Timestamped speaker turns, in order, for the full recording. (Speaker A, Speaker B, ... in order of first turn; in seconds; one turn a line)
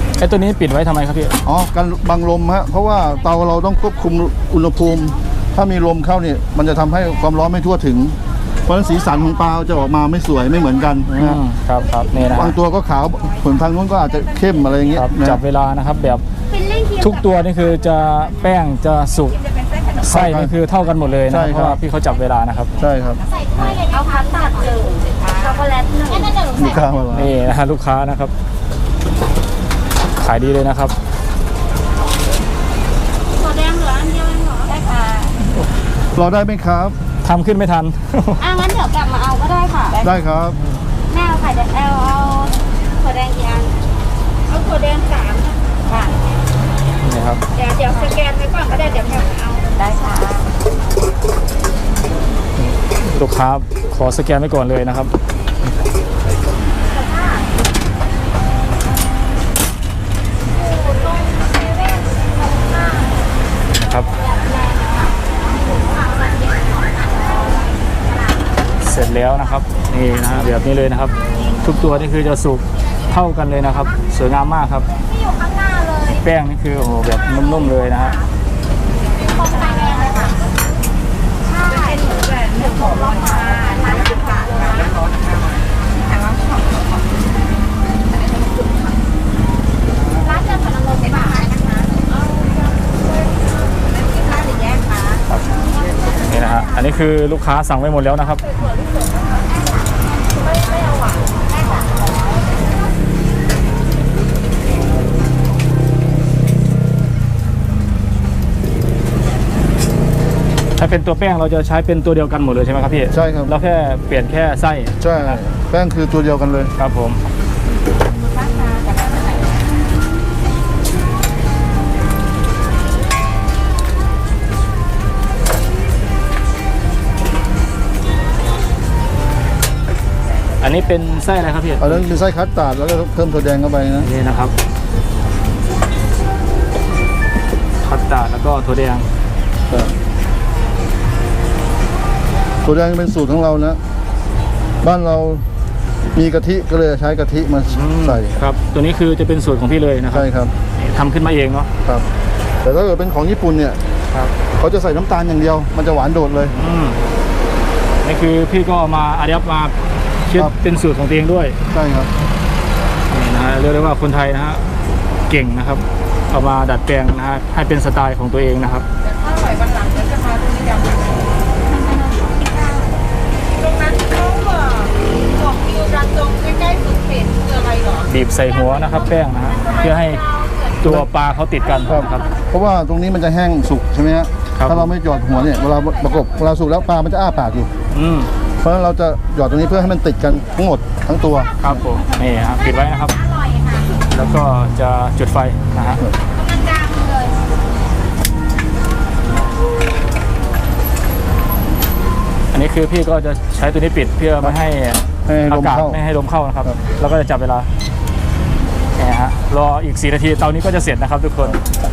Speaker A: 0.2-1.4
Speaker B: 1.4-11.4
Speaker A: 11.1-12.6
Speaker B: 12.3-15.4
Speaker A: 15.0-16.2
Speaker C: 16.5-17.1
Speaker A: 17.0-19.4
Speaker A: 20.0-22.7
Speaker B: 20.0-20.5
Speaker B: 21.3-21.8
Speaker B: 22.8-23.2
Speaker C: 23.5-26.8
Speaker B: 26.5-27.4
Speaker A: 27.1-28.3
Speaker A: 30.2-30.9
Speaker C: 33.4-35.4
Speaker B: 36.1-37.0
Speaker A: 37.2-38.5
Speaker C: 38.4-40.0
Speaker B: 40.0-40.6
Speaker C: 41.1-43.7
Speaker C: 44.5-46.1
Speaker A: 47.0-47.4
Speaker C: 47.5-50.5
Speaker A: 52.6-55.1
Speaker C: 57.0-57.4
Speaker C: 60.7-62.0
Speaker A: 63.7-64.1
Speaker C: 64.2-65.1
Speaker A: 68.8-74.9
Speaker C: 75.3-76.1
Speaker A: 76.0-78.2
Speaker C: 79.4-80.3
Speaker C: 81.5-85.0
Speaker C: 90.2-91.9
Speaker A: 96.2-98.5
Speaker C: 100.6-101.2
Speaker A: 110.8-115.4
Speaker B: 113.1-113.5
Speaker B: 115.0-116.7
Speaker A: 116.8-117.2
Speaker A: 130.6-132.1
Speaker B: 131.8-134.1
Speaker A: 134.0-134.5
Speaker A: 137.8-139.1
Speaker B: 142.6-143.8
Speaker B: 144.8-145.4
Speaker B: 146.1-148.3
Speaker A: 147.7-151.7
Speaker B: 150.1-150.5
Speaker B: 152.6-153.8
Speaker B: 154.6-156.6
Speaker A: 156.5-157.0
Speaker A: 158.0-159.8
Speaker A: 160.3-161.6
Speaker B: 161.7-162.1
Speaker A: 163.1-164.6
Speaker A: 165.3-168.9
Speaker C: 169.2-170.9
Speaker C: 173.6-174.9
Speaker C: 175.6-177.9
Speaker A: 178.0-180.2
Speaker A: 180.8-182.3
Speaker B: 181.8-187.7
Speaker A: 184.6-184.9
Speaker A: 187.9-188.3
Speaker B: 188.6-191.5
Speaker A: 191.6-193.2
Speaker A: 194.0-196.0
Speaker C: 196.4-197.3
Speaker A: 202.5-207.7
Speaker B: 205.3-206.0
Speaker A: 209.0-211.6